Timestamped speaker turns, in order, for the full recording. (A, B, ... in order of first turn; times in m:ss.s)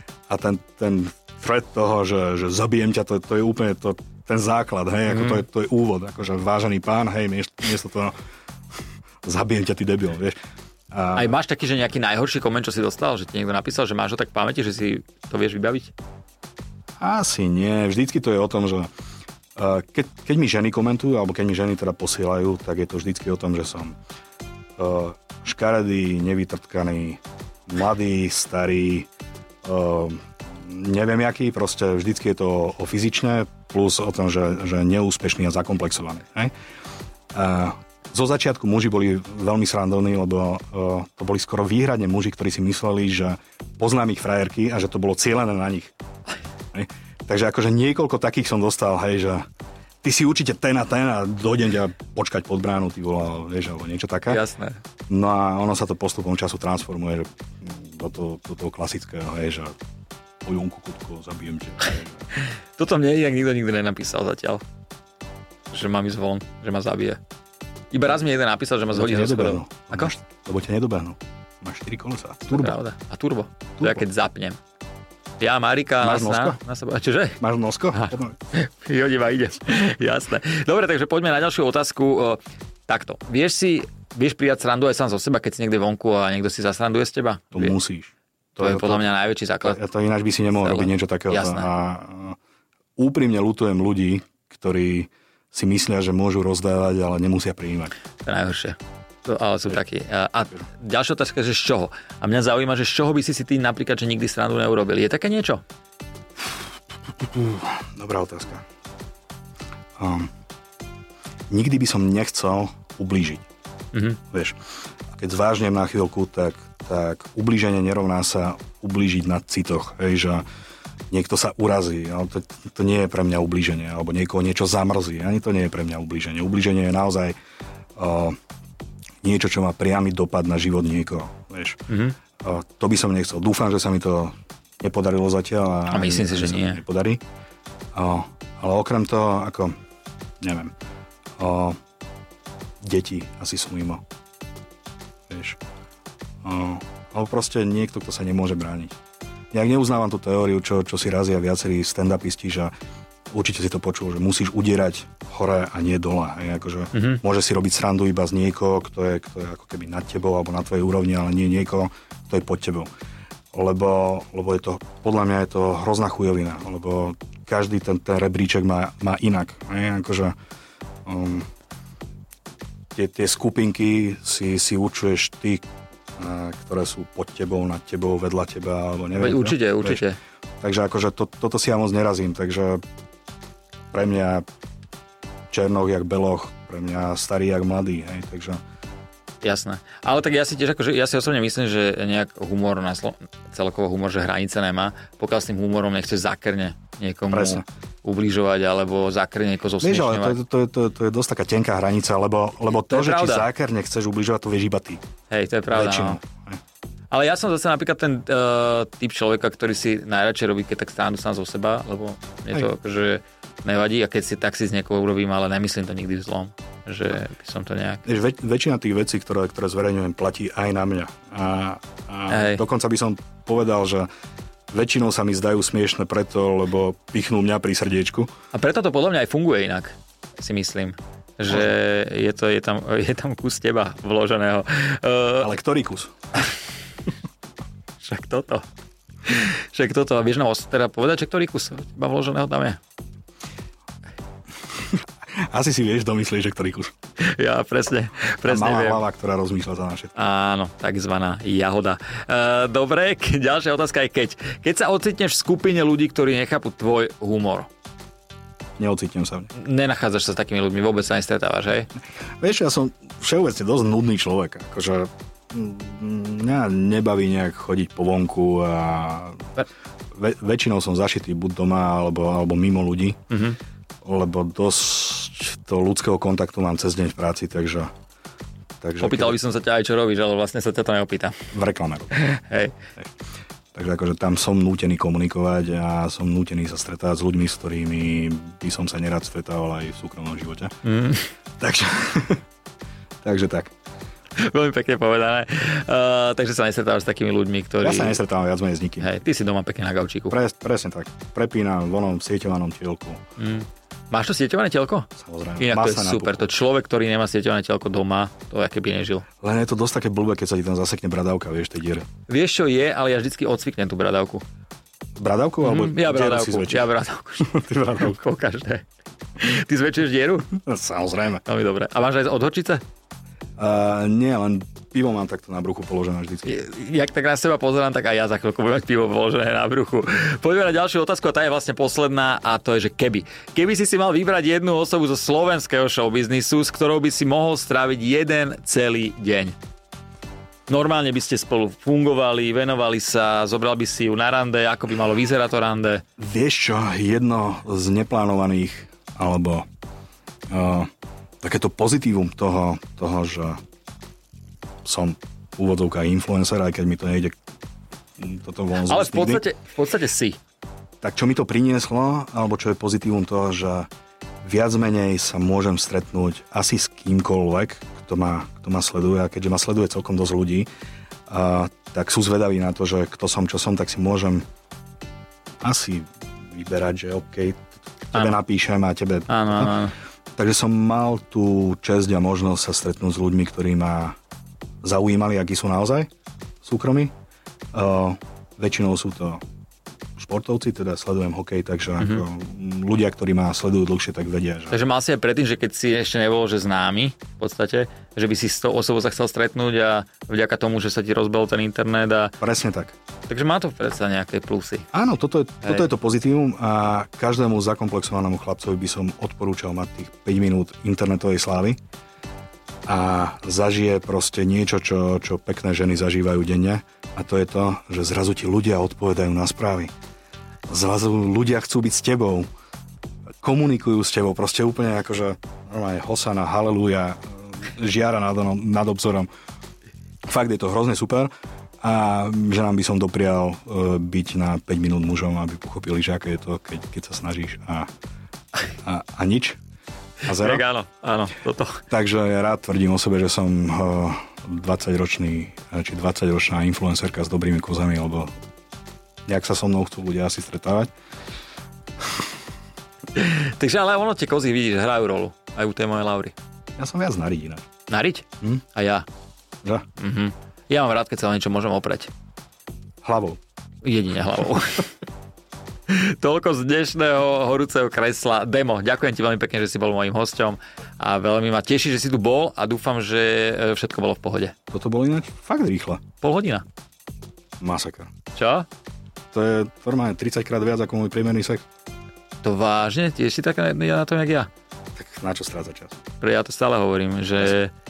0:00.3-0:08.1 A
0:05.1-0:05.4 B
0:09.2-0:10.4 A
0:10.9-0:11.3 A
0:11.2-0:15.9 B
0:17.0-0:18.9 A
0:19.6-0:24.0 A
0:24.8-0:29.1 A
0:29.6-0:36.5 A
0:37.3-0:45.9 A
0:46.7-0:49.4 A
0:50.0-0:54.4 A
0:54.3-0:54.8 B
0:55.1-0:59.8 A
1:00.4-1:02.3 A
1:02.4-1:04.6 B
1:05.7-1:07.2 B
1:07.9-1:10.1 B
1:08.9-1:12.8 A
1:12.5-1:14.6 B
1:15.4-1:17.4 B
1:16.0-1:16.6 A
1:17.4-1:18.4 A
1:17.9-1:27.8 B
1:27.5-1:29.1 A
1:28.6-1:29.8 B
1:29.6-1:32.4 A
1:30.6-1:31.7 B
1:33.0-1:37.9 A
1:38.2-1:45.6 B
1:47.2-1:48.6 A
1:50.0-1:50.3 A
1:51.5-1:53.4 A
1:53.9-1:54.2 B
1:54.3-1:54.6 A
1:55.2-2:00.4 A
2:01.1-2:07.4 A
2:08.0-2:08.4 A
2:09.2-2:11.8 A
2:11.9-2:12.2 B
2:12.4-2:17.2 A
2:15.9-2:16.8 B
2:17.9-2:19.8 A
2:20.4-2:20.7 A
2:21.4-2:21.8 A
2:22.8-2:24.0 A
2:25.3-2:25.6 A
2:26.4-2:29.0 A
2:29.5-2:32.7 A
2:33.3-2:42.9 A
2:36.9-2:37.2 B
2:43.5-2:50.4 A
2:51.1-2:51.5 A
2:53.0-2:55.6 A
2:56.2-3:00.0 A
2:59.2-3:00.2 B
3:00.6-3:02.8 A
3:03.9-3:04.4 A
3:05.5-3:08.6 A
3:09.4-3:20.4 B
3:17.3-3:17.6 A
3:19.8-3:25.0 A
3:22.9-3:23.5 B
3:25.3-3:26.2 B
3:25.7-3:26.6 A
3:27.1-3:38.0 B
3:38.0-3:44.1 A
3:42.3-3:42.6 B
3:44.7-3:48.3 A
3:48.5-3:55.5 B
3:55.4-3:56.1 A
3:58.0-3:58.6 B
3:59.2-4:02.8 B
4:04.9-4:06.9 A
4:07.2-4:09.0 B
4:08.4-4:10.1 A
4:10.2-4:17.7 B
4:18.8-4:19.5 A
4:19.6-4:21.9 B
4:22.4-4:29.5 A
4:30.1-4:33.2 A
4:33.3-4:33.6 B
4:34.0-4:37.9 A
4:38.8-4:39.4 A
4:39.0-4:41.4 B
4:41.5-4:42.1 A
4:42.1-4:42.8 B
4:43.7-4:50.7 A
4:50.8-4:51.3 B
4:51.6-4:52.4 A
4:53.2-4:53.7 A
4:54.4-4:58.2 B
4:57.8-4:59.1 A
4:59.0-5:00.4 B
5:00.3-5:03.2 A
5:03.4-5:05.1 B
5:05.2-5:06.5 A
5:05.6-5:09.2 B
5:09.4-5:12.0 A
5:12.3-5:14.4 B
5:15.2-5:16.9 A
5:15.6-5:18.8 B
5:17.4-5:18.2 A
5:19.4-5:20.5 B
5:20.5-5:21.4 A
5:21.4-5:22.8 B
5:23.6-5:26.6 A
5:26.5-5:39.6 B
5:40.7-5:46.0 B
5:46.2-5:49.7 A
5:50.5-5:50.9 A
5:51.4-5:53.6 A
5:54.8-5:57.4 A
5:58.2-5:59.4 A
5:58.8-6:00.4 B
6:01.0-6:03.9 A
6:04.4-6:10.7 A
6:11.3-6:14.4 A
6:15.6-6:19.8 A
6:19.3-6:19.9 B
6:20.4-6:24.2 A
6:24.8-6:26.1 A
6:26.6-6:27.1 A
6:27.7-6:29.4 A
6:30.2-6:34.8 A
6:34.7-6:42.4 B
6:42.4-6:43.0 A
6:43.3-6:44.9 B
6:44.9-6:51.8 A
6:52.9-6:59.9 A
7:00.7-7:02.5 A
7:03.4-7:09.3 A
7:10.3-7:11.3 A
7:11.8-7:17.9 A
7:18.8-7:19.6 A
7:20.3-7:20.6 A
7:20.3-7:21.8 B
7:21.9-7:28.3 A
7:29.3-7:30.9 A
7:33.2-7:36.3 B
7:36.8-7:37.7 A
7:37.9-7:39.0 B
7:40.0-7:42.1 B
7:43.0-7:43.4 A
7:43.8-7:44.9 B
7:45.9-7:54.5 B
7:54.7-7:56.0 A
7:56.2-7:56.6 B
7:57.6-7:58.1 A
7:58.3-7:58.7 B
7:59.3-8:01.7 A
8:02.4-8:04.5 B
8:05.0-8:06.0 A
8:06.2-8:07.7 B